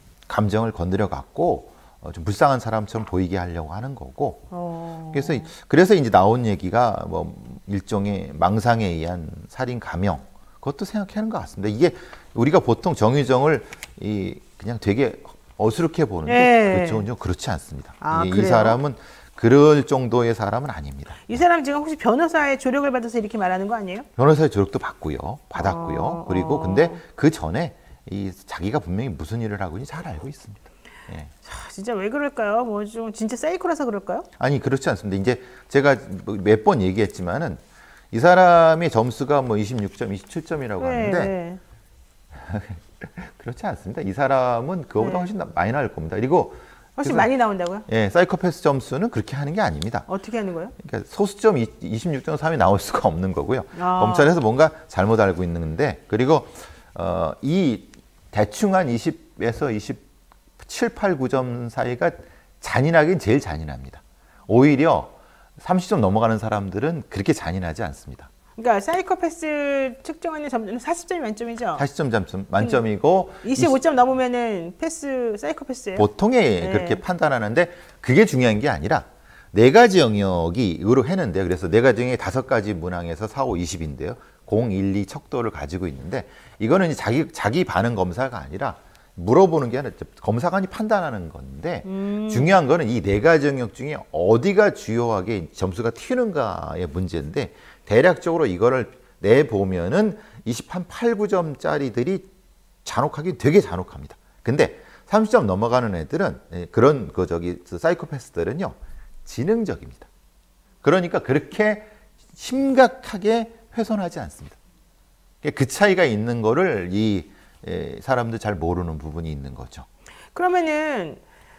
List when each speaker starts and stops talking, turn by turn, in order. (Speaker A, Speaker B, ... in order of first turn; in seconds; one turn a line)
Speaker A: 0.3-4.4
Speaker B: 4.5-5.5
Speaker A: 5.1-21.4
Speaker B: 16.2-17.1
Speaker B: 18.0-18.8
Speaker B: 21.2-24.1
Speaker A: 24.2-31.3
Speaker B: 25.6-27.0
Speaker B: 31.4-34.3
Speaker A: 34.4-37.6
Speaker A: 38.1-41.3
Speaker B: 40.8-41.6
Speaker A: 42.3-47.3
Speaker B: 45.0-45.3
Speaker B: 47.0-47.9
Speaker A: 47.9-50.1
Speaker B: 50.1-50.7
Speaker A: 50.8-60.0
Speaker B: 53.8-54.3
Speaker A: 60.6-68.3
Speaker B: 68.6-71.8
Speaker A: 71.8-73.8
Speaker B: 73.4-76.1
Speaker A: 76.0-102.3
Speaker B: 76.6-77.0
Speaker B: 91.8-92.5
Speaker A: 102.8-110.1
Speaker A: 110.8-114.6
Speaker A: 115.4-119.8
Speaker B: 120.3-121.2